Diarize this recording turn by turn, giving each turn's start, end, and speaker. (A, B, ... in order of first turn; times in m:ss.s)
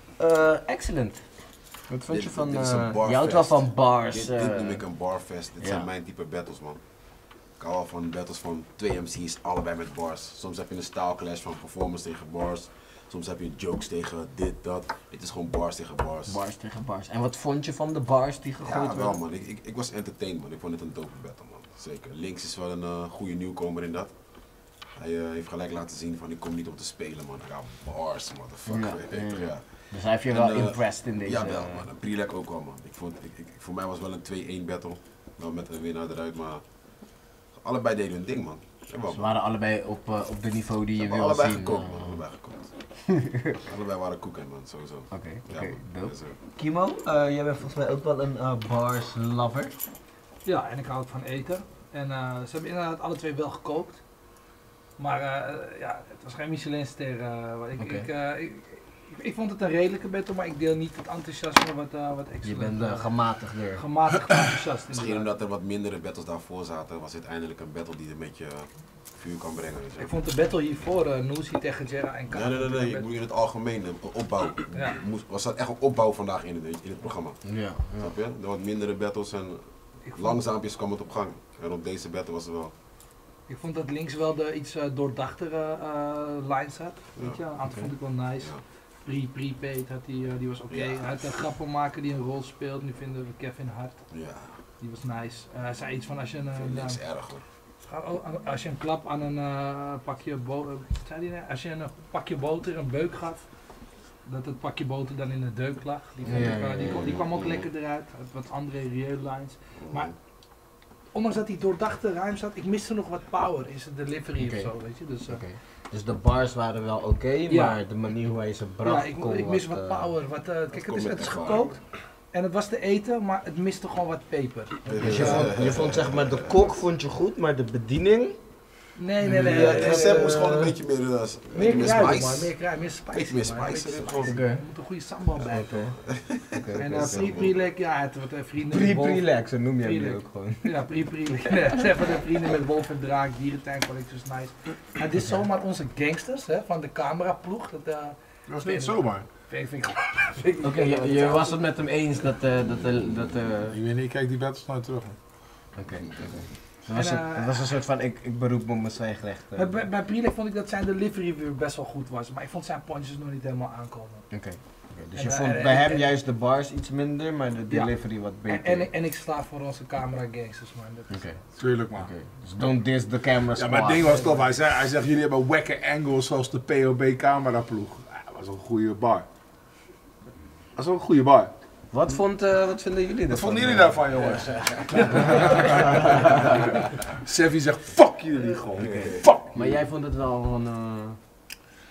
0:00.2-0:01.2 A
0:01.8-0:05.9 A
0:02.1-0:16.4 B
0:16.2-0:19.2 A
0:18.6-0:39.3 B
0:28.7-0:31.9 A
0:39.1-0:42.2 A
0:41.0-0:43.1 B
0:43.6-0:46.4 B
0:45.1-0:49.8 A
0:50.4-0:54.0 C
0:55.0-1:03.2 C
0:57.8-0:58.1 A
1:02.4-1:03.9 A
1:03.7-1:05.3 C
1:04.9-1:10.2 B
1:10.0-1:13.1 C
1:12.3-1:22.7 B
1:14.7-1:15.0 C
1:17.4-1:18.1 A
1:20.1-1:20.4 C
1:23.5-1:34.0 C
1:27.2-1:28.6 B
1:30.7-1:31.4 B
1:34.1-1:34.6 B
1:34.8-1:37.0 C
1:36.5-1:37.4 B
1:37.8-1:43.4 C
1:44.2-1:50.1 C
1:46.2-1:47.2 A
1:46.8-1:47.6 B
1:49.8-1:50.1 B
1:51.1-1:55.4 C
1:54.4-2:00.1 A
1:57.5-1:57.8 C
1:58.8-2:05.6 C
2:00.7-2:01.8 B
2:04.9-2:06.8 B
2:04.9-2:08.4 A
2:09.0-2:10.6 C
2:09.2-2:10.8 A
2:09.3-2:14.4 B
2:11.5-2:12.5 A
2:11.6-2:15.9 C
2:14.2-2:14.6 A
2:15.5-2:17.5 A
2:16.1-2:17.6 B
2:16.8-2:31.6 C
2:18.7-2:20.8 A
2:28.5-2:29.2 D
2:30.6-2:33.8 A
2:33.7-2:35.2 D
2:35.8-2:39.9 A
2:36.9-2:37.7 C
2:39.5-2:44.2 C
2:44.3-2:48.9 A
2:45.1-2:46.1 C
2:47.7-2:51.2 C
2:51.1-2:54.4 A
2:51.6-2:52.1 D
2:53.6-2:59.2 D
3:00.8-3:01.5 D
3:01.9-3:04.1 A
3:03.3-3:09.7 D
3:05.4-3:06.4 A
3:08.7-3:11.2 A
3:08.8-3:09.2 B